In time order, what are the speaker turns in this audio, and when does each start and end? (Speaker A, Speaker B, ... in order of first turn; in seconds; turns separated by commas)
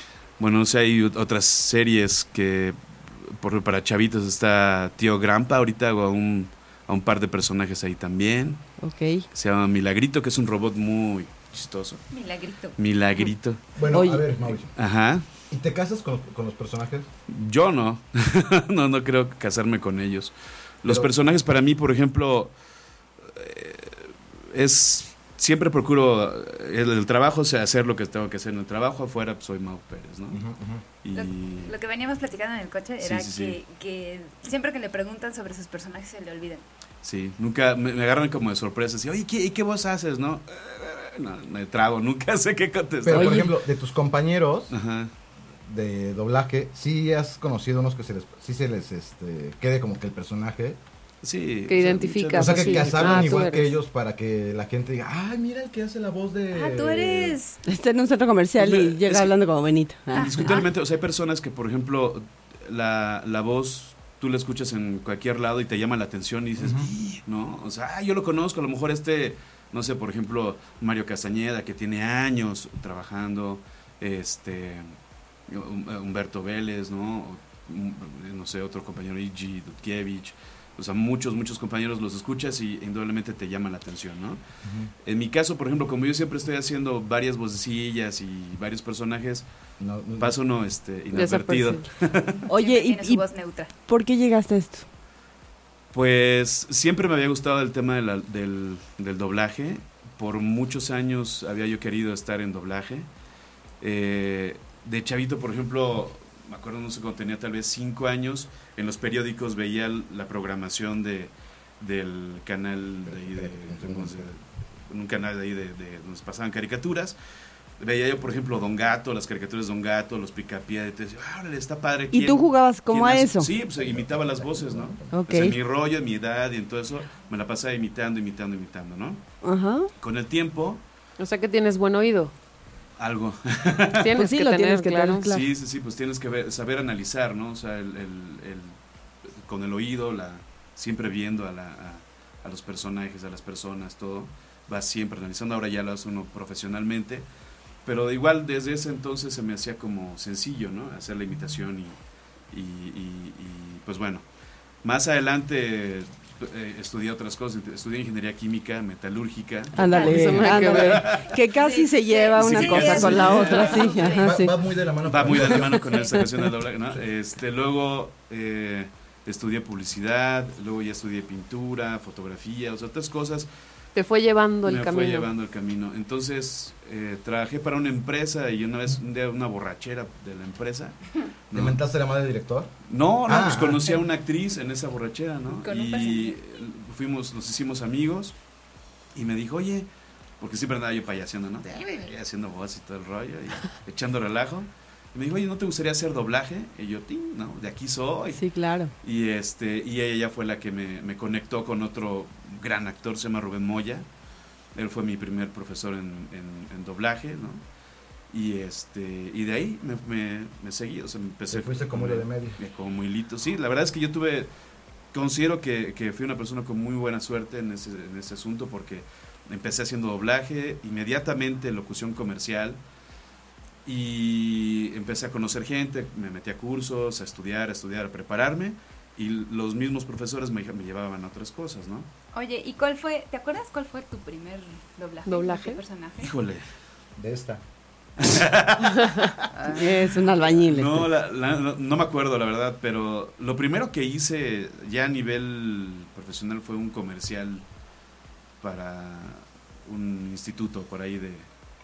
Speaker A: 0.4-2.8, Speaker A: 3.3-8.6, Speaker B: 8.8-9.2, Speaker A: 9.3-12.1, Speaker C: 12.1-12.8, Speaker A: 12.8-13.6, Speaker D: 13.8-14.7, Speaker B: 13.9-14.5, Speaker A: 14.8-15.2, Speaker D: 15.5-17.1, Speaker A: 17.3-22.5, Speaker D: 20.9-21.1, Speaker A: 23.2-30.4, Speaker D: 30.3-30.8, Speaker A: 31.0-31.8, Speaker C: 31.1-36.6, Speaker A: 33.0-33.6, Speaker A: 37.0-43.5, Speaker D: 43.0-44.8, Speaker B: 43.1-43.5, Speaker A: 44.7-45.1, Speaker D: 45.6-50.8, Speaker A: 51.2-53.5, Speaker E: 51.7-53.8, Speaker D: 52.4-57.4, Speaker C: 56.5-57.6, Speaker B: 57.7-60.3, Speaker A: 58.6-59.3, Speaker C: 60.1-60.7, Speaker A: 60.1-75.0, Speaker D: 66.6-66.9, Speaker A: 75.5-84.4, Speaker D: 84.6-84.9, Speaker A: 85.0-89.5, Speaker D: 89.8-90.3, Speaker A: 90.2-92.4, Speaker E: 91.1-91.8, Speaker C: 92.3-93.7, Speaker B: 92.5-93.2, Speaker B: 93.9-94.8, Speaker A: 95.9-103.1, Speaker A: 103.8-117.2, Speaker D: 113.0-114.3, Speaker A: 117.8-129.2, Speaker B: 122.1-123.5, Speaker D: 123.7-125.1, Speaker B: 125.1-125.6, Speaker B: 129.4-129.9, Speaker A: 130.0-130.8, Speaker E: 131.2-132.3, Speaker A: 133.0-134.1, Speaker E: 133.9-135.3, Speaker B: 134.1-135.4, Speaker A: 135.3-138.8, Speaker A: 139.4-147.3, Speaker A: 147.8-152.0, Speaker A: 152.5-154.2, Speaker A: 154.8-161.3, Speaker B: 159.8-164.5, Speaker C: 159.8-160.7, Speaker E: 159.9-161.1, Speaker C: 161.3-164.4, Speaker A: 162.4-163.9, Speaker D: 164.2-165.8, Speaker A: 165.0-173.5, Speaker C: 165.8-166.1, Speaker E: 173.9-175.3, Speaker A: 174.7-181.0, Speaker A: 181.5-181.8, Speaker D: 181.5-182.7, Speaker A: 182.9-188.3, Speaker D: 183.3-184.0, Speaker C: 185.5-186.4, Speaker A: 189.1-189.9, Speaker A: 190.4-198.4, Speaker B: 198.3-198.9, Speaker A: 199.0-204.1, Speaker A: 204.8-207.6, Speaker A: 208.3-214.5, Speaker D: 211.5-212.6, Speaker A: 215.1-222.8, Speaker A: 223.8-232.1, Speaker C: 232.3-236.3, Speaker E: 235.3-235.8, Speaker A: 236.2-236.6, Speaker D: 237.2-237.6, Speaker A: 238.2-239.5, Speaker E: 239.0-239.3, Speaker C: 239.5-240.2, Speaker B: 239.7-241.1, Speaker A: 240.7-247.6, Speaker A: 248.6-251.5